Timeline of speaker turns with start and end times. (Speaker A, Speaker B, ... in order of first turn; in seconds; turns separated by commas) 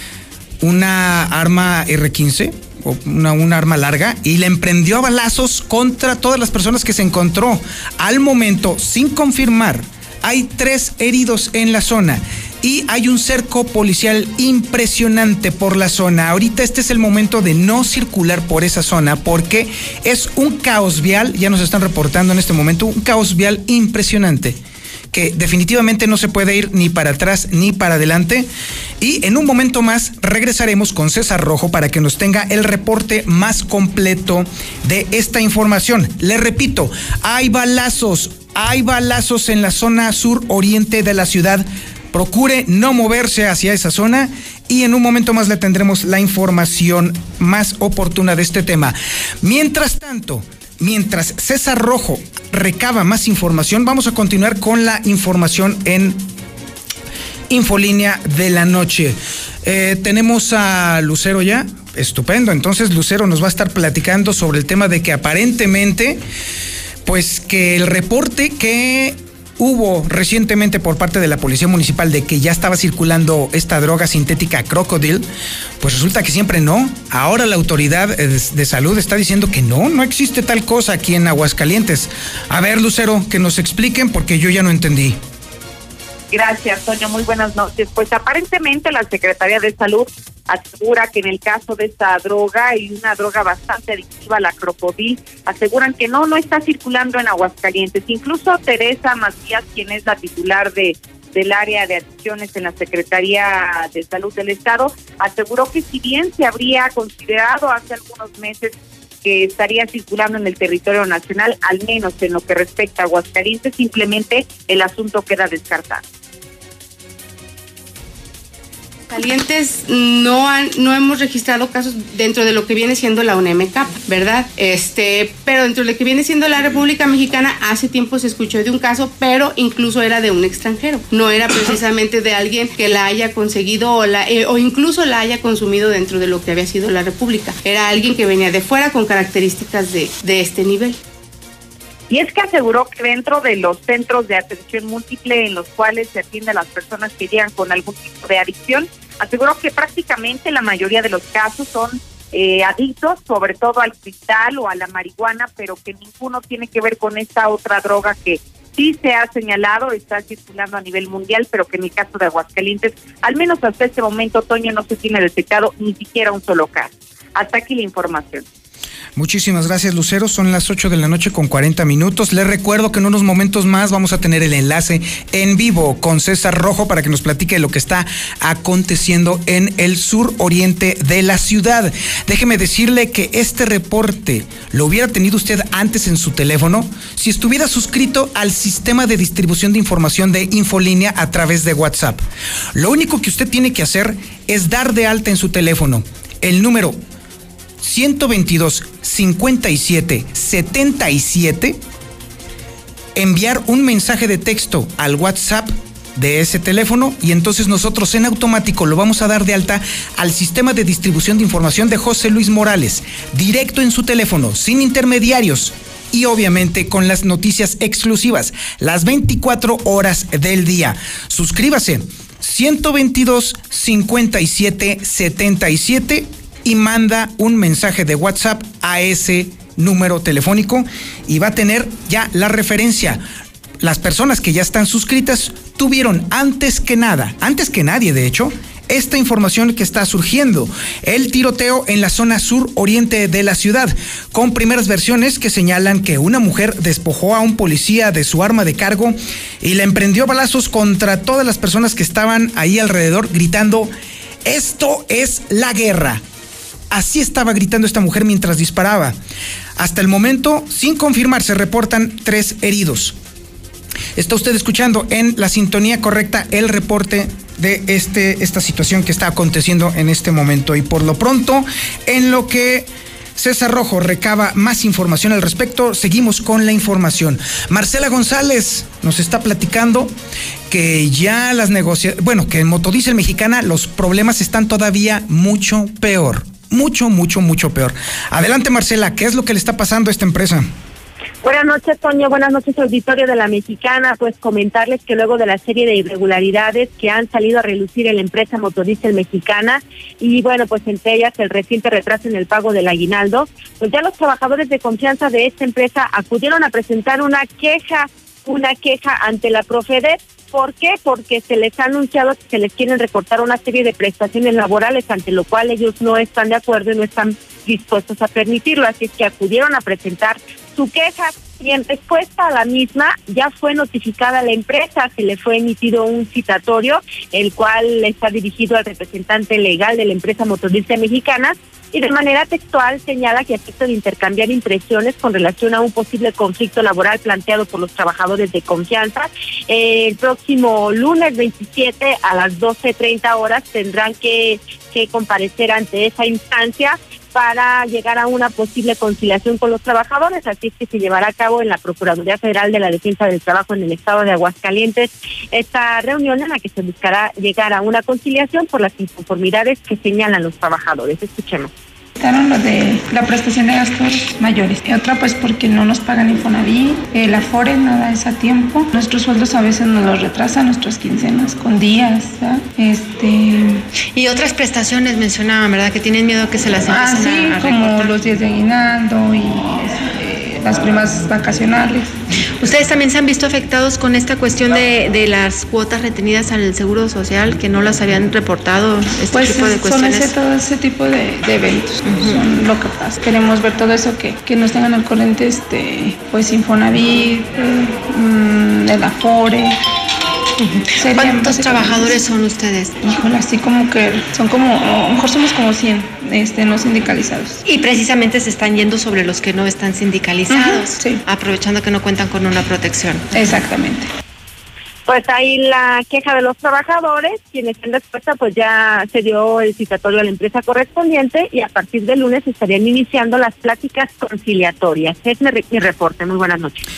Speaker A: 0.6-24.6, Speaker A: 25.1-28.5, Speaker A: 29.0-56.3, Speaker A: 57.5-66.2, Speaker A: 67.0-75.2, Speaker A: 75.8-85.2, Speaker B: 86.3-116.0, Speaker C: 119.1-141.0, Speaker B: 142.1-168.4, Speaker A: 169.2-192.2, Speaker A: 192.7-197.0, Speaker A: 197.8-201.8, Speaker A: 203.1-233.2, Speaker A: 233.8-253.9, Speaker A: 254.4-256.2, Speaker A: 256.9-259.1, Speaker A: 259.8-263.1, Speaker A: 264.1-280.1, Speaker A: 280.7-290.7, Speaker D: 291.4-361.7, Speaker E: 362.2-373.8, Speaker F: 374.1-378.1, Speaker E: 376.9-382.1, Speaker F: 382.6-390.3, Speaker E: 389.3-399.8, Speaker F: 392.0-392.4, Speaker F: 400.6-402.9, Speaker E: 401.0-402.2, Speaker E: 403.0-407.6, Speaker F: 407.6-413.2, Speaker E: 410.5-411.2, Speaker E: 413.3-414.1, Speaker D: 415.1-426.8